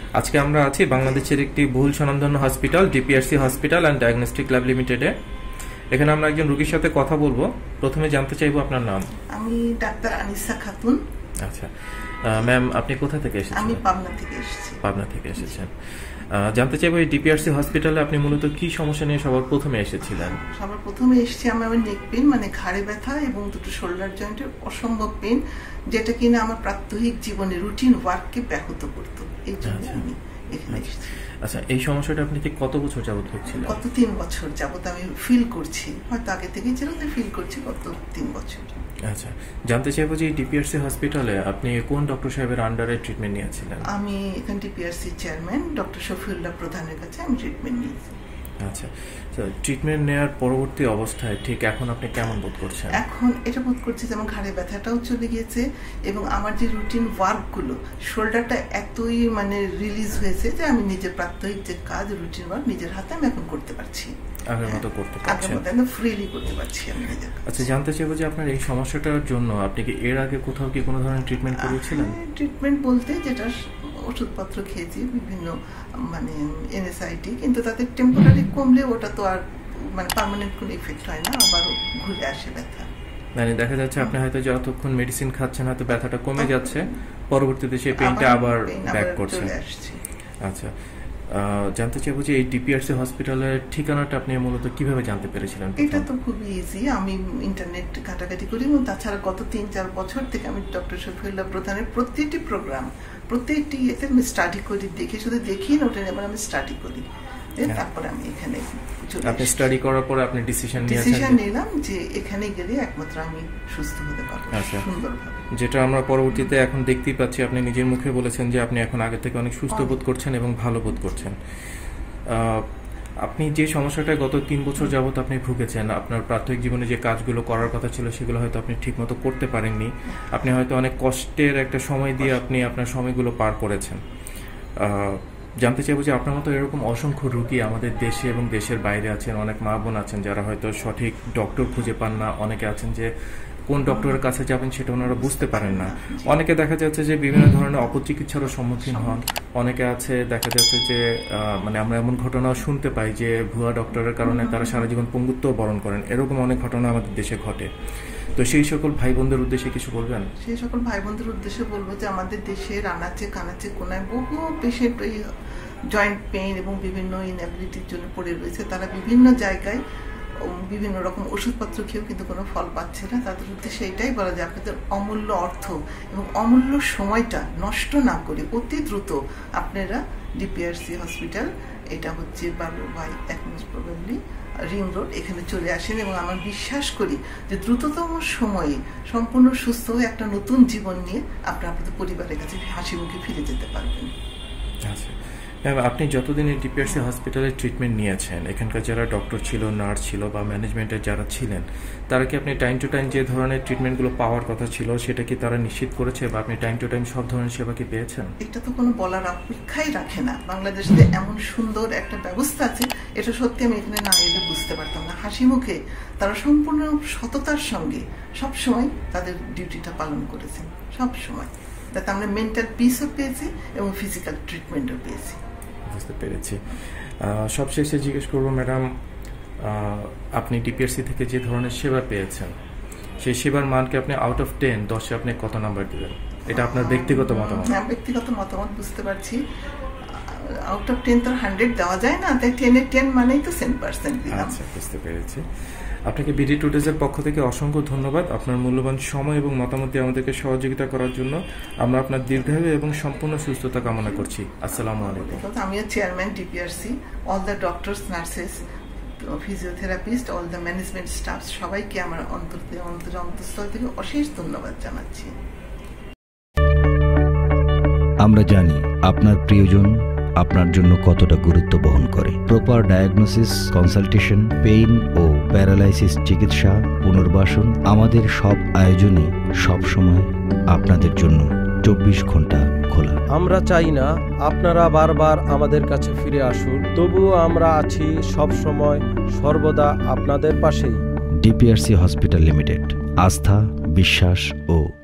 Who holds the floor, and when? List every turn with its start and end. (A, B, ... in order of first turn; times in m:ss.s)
0:00.2-0:05.1 A
0:05.9-0:09.1 A
0:09.4-0:11.0 B
0:11.4-0:11.7 A
0:12.2-0:13.8 A
0:13.6-0:14.8 B
0:14.8-0:15.7 A
0:16.4-0:20.4 A
0:20.0-0:25.4 B
0:25.9-0:31.1 B
0:29.6-0:30.0 A
0:31.4-0:33.8 A
0:33.5-0:38.8 B
0:39.1-0:43.9 A
0:43.9-0:48.2 B
0:48.6-0:53.0 A
0:52.9-1:04.1 B
1:04.5-1:05.6 A
1:04.7-1:07.7 B
1:07.5-1:12.2 A
1:11.5-1:13.5 B
1:14.1-1:15.5 B
1:16.1-1:19.4 B
1:20.0-1:22.9 B
1:23.4-1:29.5 A
1:26.4-1:26.8 B
1:28.0-1:30.0 B
1:30.4-1:30.7 A
1:31.3-1:36.1 A
1:35.8-1:47.0 B
1:47.6-1:49.7 B
1:49.2-1:51.4 A
1:50.8-1:55.4 B
1:54.5-1:54.9 A
1:55.5-2:01.4 A
1:59.7-2:00.0 B
2:02.3-2:02.6 A
2:03.2-2:14.0 A
2:14.8-2:23.1 A
2:23.7-2:37.7 A
2:25.2-2:26.3 B
2:28.9-2:29.2 B
2:34.3-2:34.6 B
2:38.4-2:40.3 A
2:40.4-2:45.2 B
2:45.9-2:49.8 B
2:50.5-3:04.2 B
3:04.7-3:14.1 B
3:14.9-3:28.3 A
3:28.4-3:45.4 B
3:45.9-3:48.9 A
3:49.6-3:52.5 A
3:53.2-3:57.8 A
3:56.5-3:59.4 B
4:00.2-4:04.6 B
4:04.3-4:05.4 A
4:06.1-4:15.4 A
4:13.9-4:18.6 B
4:19.4-4:25.3 B
4:28.2-4:43.2 C
4:43.3-4:51.0 D
4:51.4-4:54.9 C